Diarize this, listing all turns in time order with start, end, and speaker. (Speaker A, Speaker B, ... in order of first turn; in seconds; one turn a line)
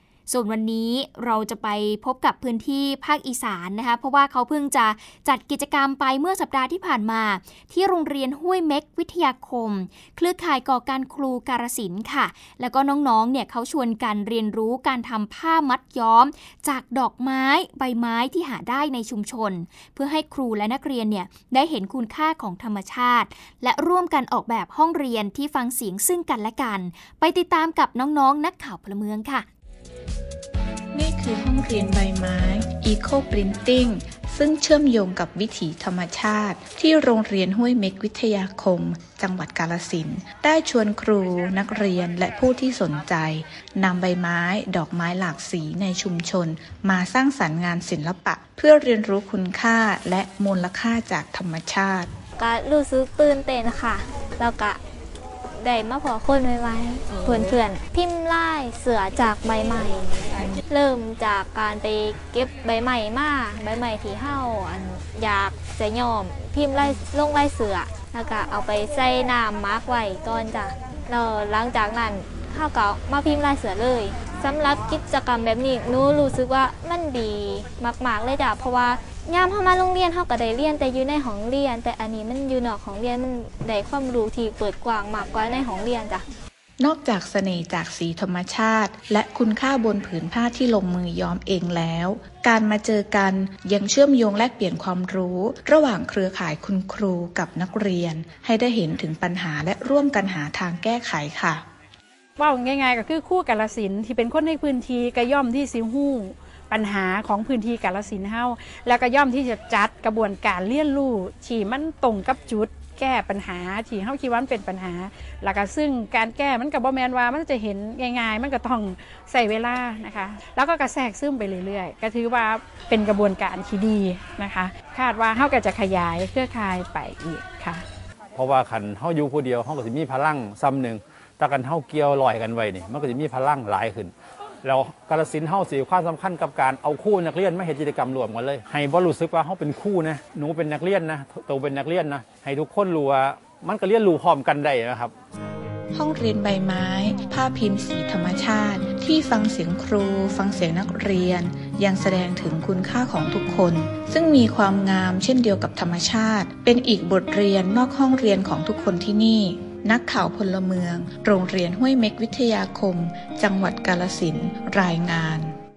Speaker A: 0.3-29.5
Speaker B: 30.9-52.1
Speaker C: 52.4-54.8
Speaker C: 55.5-86.2
Speaker B: 86.8-101.7
Speaker D: 102.4-127.8
Speaker E: 128.3-145.1
Speaker B: 145.9-165.5